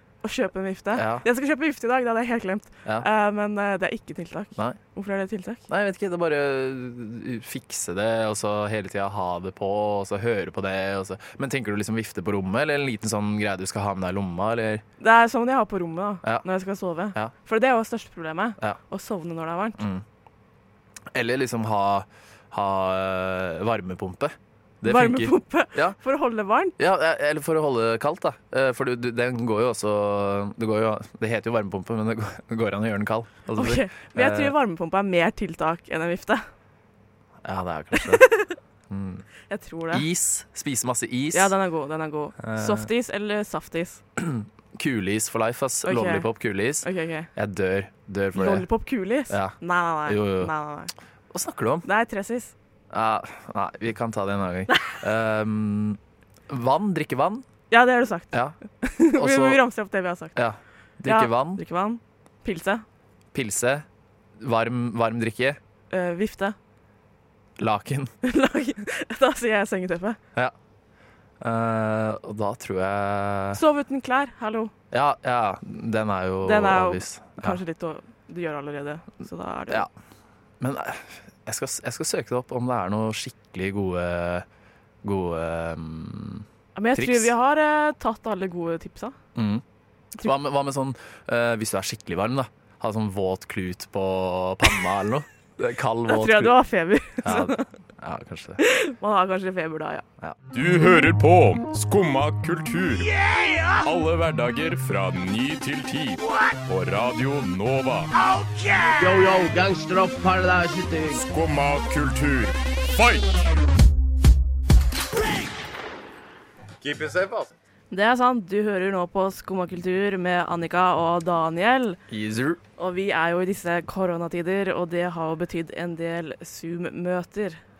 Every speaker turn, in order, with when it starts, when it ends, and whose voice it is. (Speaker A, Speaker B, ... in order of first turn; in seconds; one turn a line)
Speaker A: 0.2-5.7
Speaker B: 0.9-1.3
Speaker B: 5.7-14.8
Speaker A: 15.0-19.8
Speaker B: 19.8-20.1
Speaker B: 21.1-26.0
Speaker A: 24.9-26.8
Speaker B: 26.8-34.5
Speaker A: 33.6-36.5
Speaker B: 37.4-38.3
Speaker A: 37.9-38.6
Speaker B: 38.9-39.3
Speaker A: 39.5-40.1
Speaker B: 39.9-41.5
Speaker A: 41.3-44.0
Speaker B: 42.4-42.9
Speaker B: 44.2-48.7
Speaker A: 45.8-46.3
Speaker A: 46.8-47.3
Speaker A: 48.4-50.9
Speaker B: 49.3-50.5
Speaker B: 51.3-51.9
Speaker A: 51.8-52.5
Speaker B: 52.9-57.5
Speaker A: 54.7-55.0
Speaker A: 57.7-60.4
Speaker B: 58.3-58.6
Speaker B: 59.1-59.6
Speaker B: 60.3-61.6
Speaker A: 61.0-62.9
Speaker B: 63.3-63.9
Speaker B: 64.4-65.6
Speaker A: 65.9-66.6
Speaker B: 67.6-68.1
Speaker A: 68.2-70.2
Speaker B: 71.4-73.6
Speaker A: 73.5-74.7
Speaker B: 74.9-77.6
Speaker A: 76.4-79.9
Speaker B: 80.6-84.5
Speaker B: 85.0-87.3
Speaker A: 86.8-89.2
Speaker B: 89.3-89.6
Speaker B: 90.2-96.6
Speaker A: 96.1-97.7
Speaker B: 97.2-98.6
Speaker A: 98.6-100.0
Speaker C: 100.5-103.2
Speaker C: 103.8-108.1
Speaker D: 108.9-111.2
Speaker C: 111.2-113.3
Speaker B: 116.8-117.5
Speaker A: 117.9-122.0
Speaker B: 122.1-122.6
Speaker A: 122.8-127.6